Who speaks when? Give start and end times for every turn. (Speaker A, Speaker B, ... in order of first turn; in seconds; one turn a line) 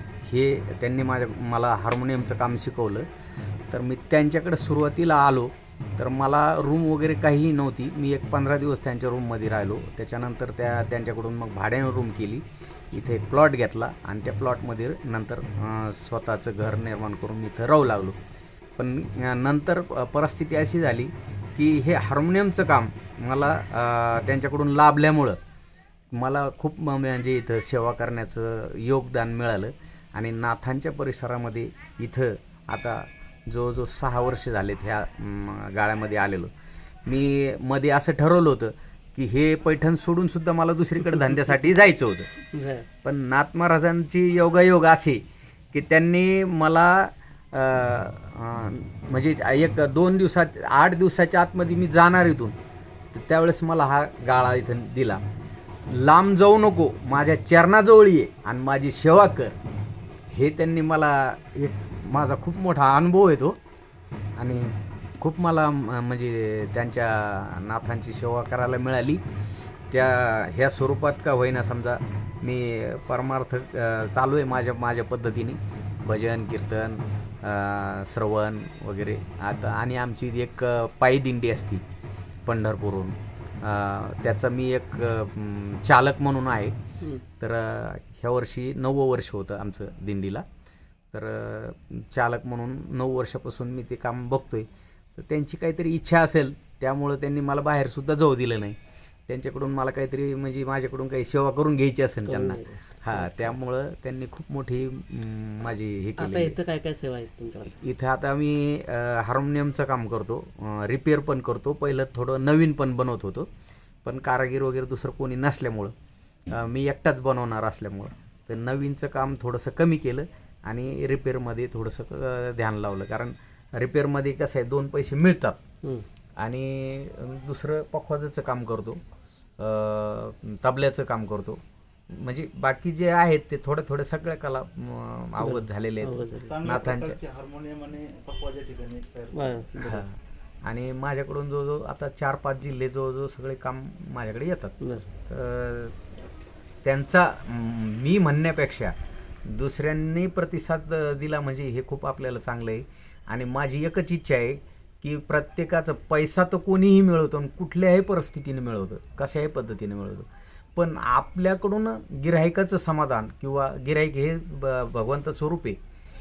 Speaker A: 0.2-3.1
Speaker A: 3.7-18.2
Speaker A: 18.8-25.4
Speaker A: 26.1-36.5
Speaker A: 37.0-42.3
Speaker B: 42.5-42.9
Speaker A: 43.0-52.5
Speaker A: 53.1-55.2
Speaker A: 55.9-59.6
Speaker A: 60.3-63.6
Speaker A: 64.4-69.2
Speaker A: 69.9-81.8
Speaker A: 82.4-86.8
Speaker A: 87.4-90.4
Speaker A: 91.1-98.8
Speaker A: 99.3-106.5
Speaker B: 102.2-103.5
Speaker B: 106.2-107.8
Speaker A: 107.8-113.5
Speaker A: 114.0-115.9
Speaker A: 116.5-125.6
Speaker A: 126.4-129.0
Speaker A: 129.6-131.6
Speaker A: 132.1-137.2
Speaker B: 135.4-136.5
Speaker C: 136.4-139.6
Speaker B: 139.3-140.0
Speaker A: 139.8-144.7
Speaker B: 144.8-145.1
Speaker A: 145.2-145.9
Speaker A: 146.8-165.8